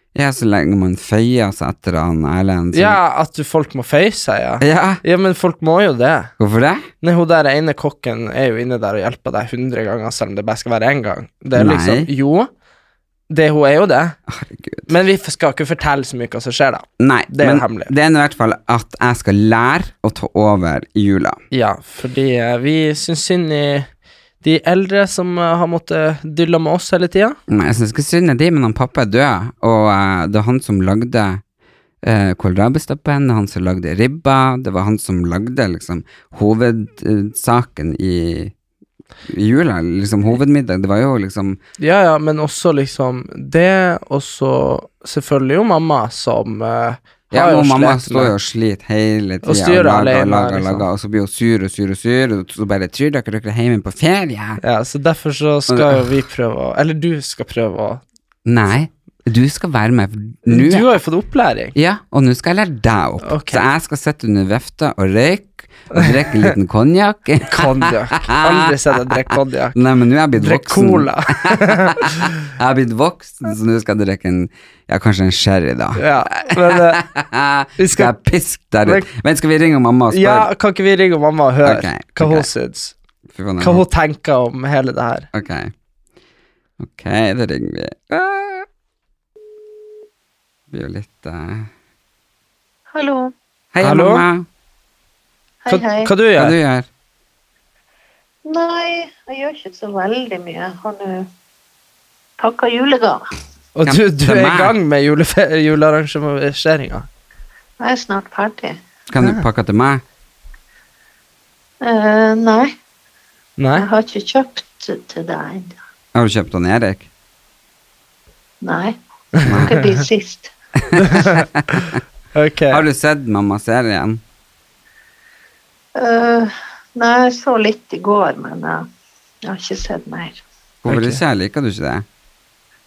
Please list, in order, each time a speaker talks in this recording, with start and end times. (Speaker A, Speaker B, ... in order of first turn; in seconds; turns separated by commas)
Speaker A: 0.1-3.0, Speaker B: 2.7-6.3, Speaker A: 4.6-5.0, Speaker A: 6.4-6.9, Speaker B: 7.0-12.5, Speaker A: 11.5-12.1, Speaker B: 13.3-14.2, Speaker A: 14.3-14.9, Speaker B: 14.9-17.9, Speaker A: 17.0-21.4, Speaker B: 21.5-23.9, Speaker B: 24.4-27.4, Speaker A: 27.5-31.4, Speaker A: 32.0-38.5, Speaker A: 39.3-41.6, Speaker B: 41.8-48.3, Speaker A: 47.3-54.6, Speaker B: 49.4-50.9, Speaker B: 54.6-58.0, Speaker A: 55.7-56.0, Speaker A: 58.5-60.9, Speaker B: 60.5-61.7, Speaker A: 61.7-80.5, Speaker B: 63.2-63.7, Speaker B: 65.9-66.5, Speaker B: 67.5-69.8, Speaker B: 70.3-72.2, Speaker B: 75.9-77.0, Speaker B: 77.8-78.1, Speaker B: 80.1-82.9, Speaker A: 81.6-82.5, Speaker A: 83.3-83.8, Speaker B: 83.6-85.3, Speaker A: 85.3-85.7, Speaker A: 86.8-88.7, Speaker A: 90.7-91.7, Speaker C: 92.9-93.3, Speaker A: 93.7-94.5, Speaker B: 93.8-94.2, Speaker C: 95.6-96.1, Speaker B: 95.7-96.6, Speaker A: 96.3-96.9, Speaker C: 98.4-101.3, Speaker C: 102.4-103.2, Speaker B: 103.8-107.1, Speaker A: 103.8-104.7, Speaker C: 107.8-108.8, Speaker A: 109.1-110.0, Speaker C: 111.8-112.7, Speaker B: 113.6-113.9, Speaker C: 113.8-115.8, Speaker A: 116.1-117.1, Speaker C: 118.6-120.5, Speaker A: 119.4-119.8, Speaker A: 120.9-122.0, Speaker B: 120.9-122.8, Speaker A: 122.7-124.2, Speaker C: 125.9-128.9, Speaker C: 129.4-130.4, Speaker A: 130.8-132.0, Speaker B: 130.9-131.2